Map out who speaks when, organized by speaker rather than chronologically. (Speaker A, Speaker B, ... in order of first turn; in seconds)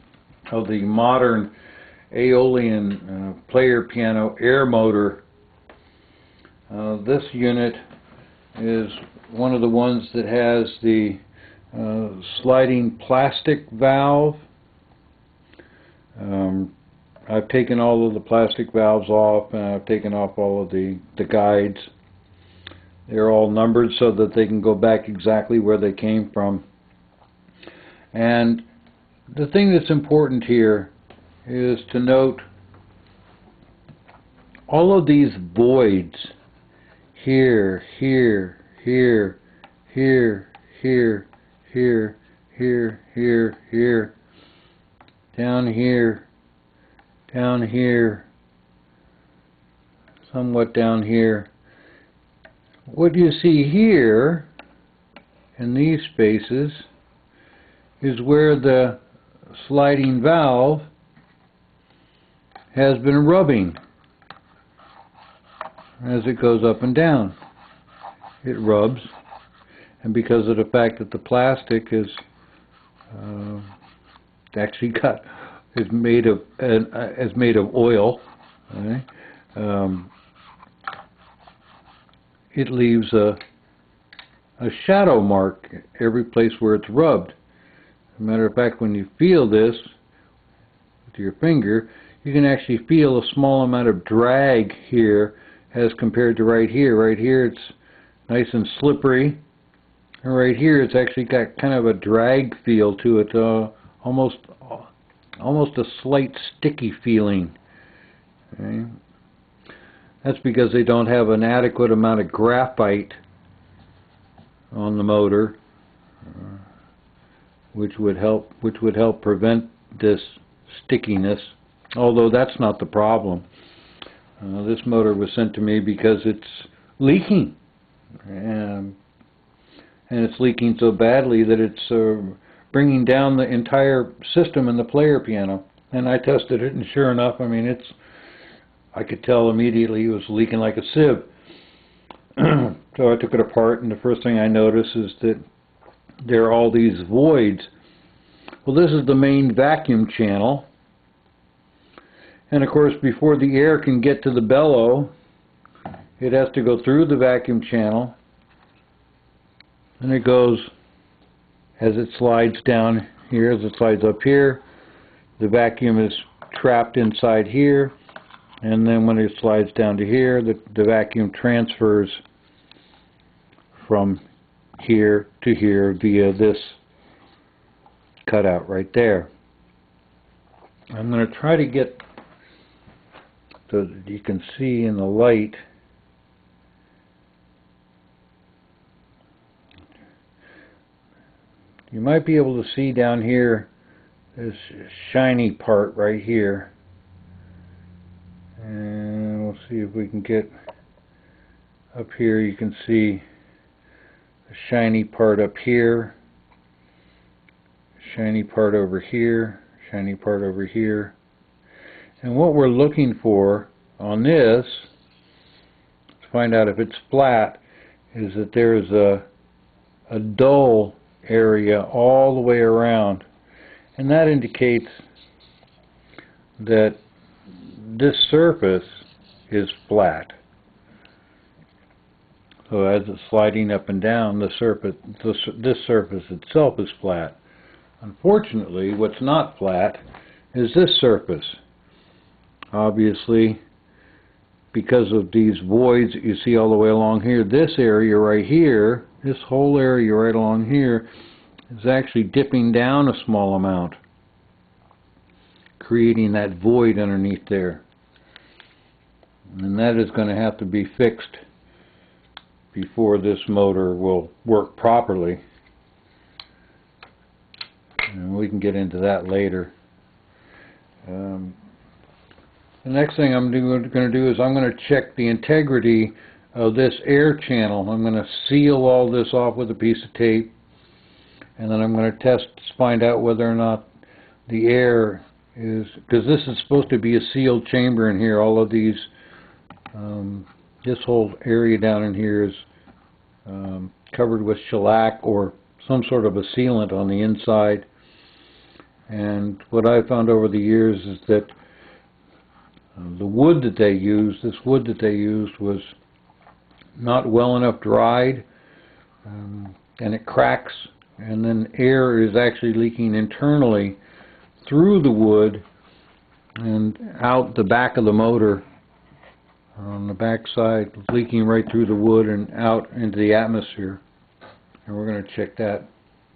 Speaker A: 0.5-1.5, 2.1-5.2, 6.7-7.8, 8.6-11.2, 11.7-14.4, 16.2-16.7, 17.3-21.9, 23.1-26.6, 28.1-28.6, 29.3-30.9, 31.4-32.5, 34.7-36.3, 37.1-39.4, 39.9-44.1, 45.3-46.3, 47.3-48.3, 50.3-51.5, 52.9-54.5, 55.6-56.9, 58.0-59.0, 59.5-60.9, 62.7-63.8, 66.0-67.3, 68.4-69.1, 70.0-72.2, 73.1-73.7, 74.5-80.1, 82.5-83.4, 84.6-87.3, 88.2-89.9, 91.1-97.7, 98.3-99.4, 100.2-107.5, 108.5-109.0, 110.2-113.2, 114.7-115.6, 117.7-123.4, 124.4-127.6, 128.2-129.0, 130.1-137.9, 138.9-141.3, 142.4-145.4, 146.2-147.7, 148.6-150.7, 152.5-155.1, 156.2-158.2, 160.0-160.7, 161.8-164.6, 165.4-167.9, 168.6-172.2, 173.8-174.2, 174.8-176.8, 178.2-179.3, 180.9-182.0, 183.7-185.6, 191.9-193.7, 194.3-196.7, 198.6-200.5, 201.9-203.2, 204.5-206.2, 208.0-211.1, 212.2-214.9, 216.2-217.6, 218.1-219.2, 220.1-223.2, 223.9-225.0, 226.6-227.0, 227.7-230.4, 232.7-237.4, 238.0-240.0, 240.5-241.6, 242.7-243.6, 244.7-251.1, 251.7-254.0, 255.8-257.8, 259.6-261.4, 262.7-265.4, 268.1-269.7, 271.1-271.6, 272.8-280.5, 281.6-283.9, 284.5-289.1, 289.9-292.6, 293.5-297.9, 299.1-301.5, 303.0-305.9, 307.0-308.5, 309.2-314.0, 314.6-315.6, 316.6-318.6, 319.8-324.0, 324.9-325.9